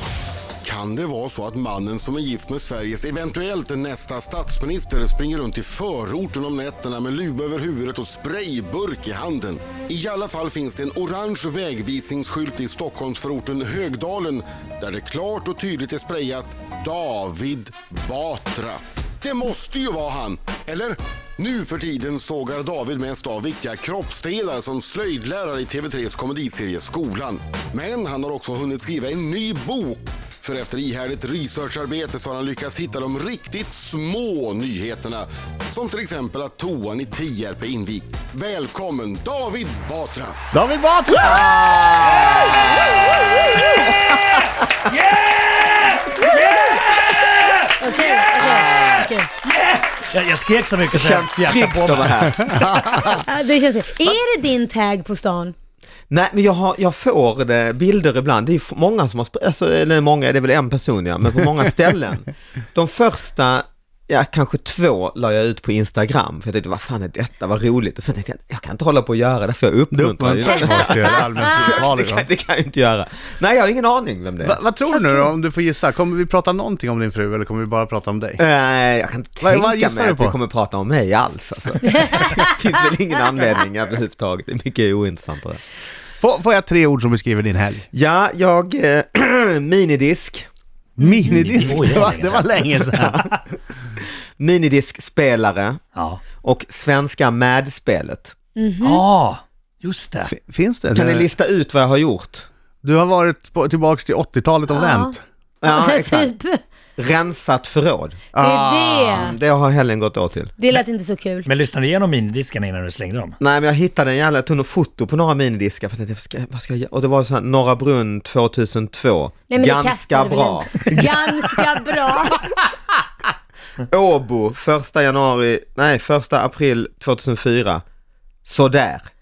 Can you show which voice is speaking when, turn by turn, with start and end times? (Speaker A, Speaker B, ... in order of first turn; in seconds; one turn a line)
Speaker A: 0.6-40.4
Speaker B: 40.5-41.5
Speaker C: 41.1-44.4
Speaker D: 44.8-48.9
Speaker E: 47.8-49.3
Speaker C: 48.4-49.1
Speaker D: 49.4-52.5
Speaker C: 50.9-52.8
Speaker B: 52.4-53.2
Speaker E: 53.0-55.5
Speaker C: 56.1-74.6
Speaker B: 69.9-72.2
Speaker E: 70.9-71.4
Speaker B: 74.4-78.4
Speaker C: 78.4-85.6
Speaker B: 79.4-80.4
Speaker E: 81.9-82.4
Speaker B: 86.2-87.8
Speaker C: 87.9-90.5
Speaker B: 91.0-93.2
Speaker D: 91.2-92.4
Speaker C: 91.6-95.8
Speaker D: 95.9-96.2
Speaker C: 96.4-98.3
Speaker E: 98.5-99.0
Speaker D: 98.8-100.3
Speaker B: 100.2-101.3
Speaker C: 100.9-102.5
Speaker B: 102.8-105.2
Speaker E: 104.7-105.1
Speaker C: 105.6-106.3
Speaker E: 105.6-106.6
Speaker C: 107.0-108.2
Speaker B: 108.3-109.2
Speaker E: 108.4-109.3
Speaker C: 109.1-110.5
Speaker E: 110.6-111.5
Speaker D: 111.4-113.3
Speaker C: 113.4-120.9
Speaker E: 119.5-122.5
Speaker C: 123.9-127.8
Speaker C: 128.4-129.1